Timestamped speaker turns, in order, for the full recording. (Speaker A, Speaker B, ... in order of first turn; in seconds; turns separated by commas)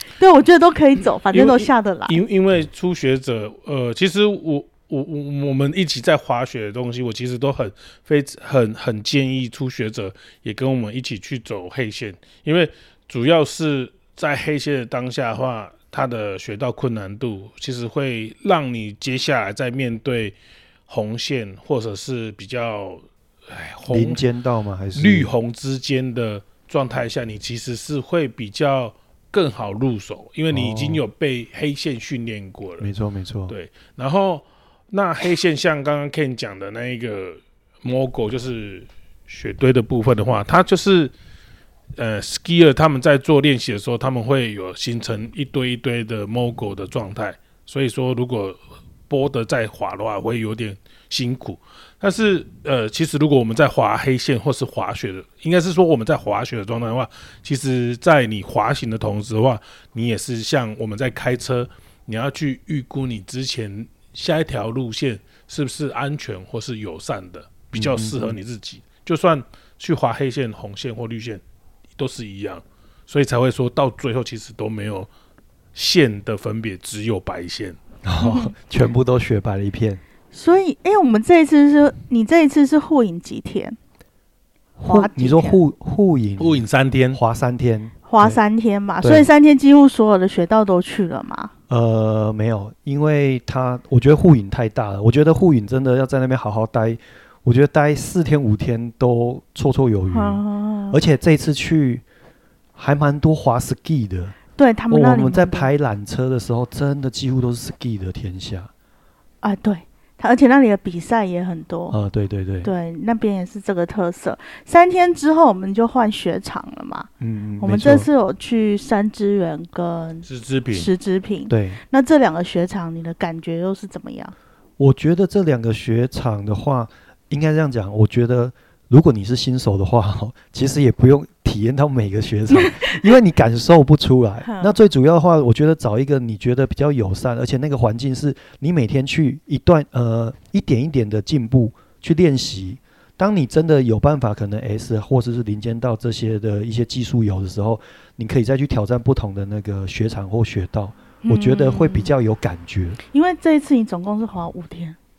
Speaker A: 0.2-2.2, Speaker B: 1.3-20.4, Speaker B: 20.9-24.2, Speaker C: 23.9-25.3, Speaker B: 24.9-32.9, Speaker C: 30.5-31.0, Speaker C: 32.8-33.5, Speaker B: 33.5-41.1, Speaker B: 42.0-71.4, Speaker C: 67.7-68.4, Speaker B: 72.0-75.1, Speaker B: 75.8-77.8, Speaker C: 78.0-80.0, Speaker A: 78.2-78.5, Speaker A: 80.3-83.8, Speaker C: 84.8-88.4, Speaker A: 84.9-85.6, Speaker B: 86.4-87.2, Speaker A: 88.1-91.5, Speaker C: 89.0-89.3, Speaker C: 91.7-102.0, Speaker A: 100.1-101.0, Speaker C: 102.8-104.4, Speaker A: 104.6-105.7, Speaker C: 104.9-108.7, Speaker A: 109.4-112.0, Speaker C: 111.9-112.7, Speaker A: 112.6-117.1, Speaker C: 117.2-118.1, Speaker A: 117.6-124.3, Speaker B: 120.2-120.9, Speaker C: 121.5-121.8, Speaker C: 124.8-153.0, Speaker A: 132.5-133.0, Speaker A: 134.4-134.7, Speaker A: 151.2-152.1, Speaker A: 153.1-155.0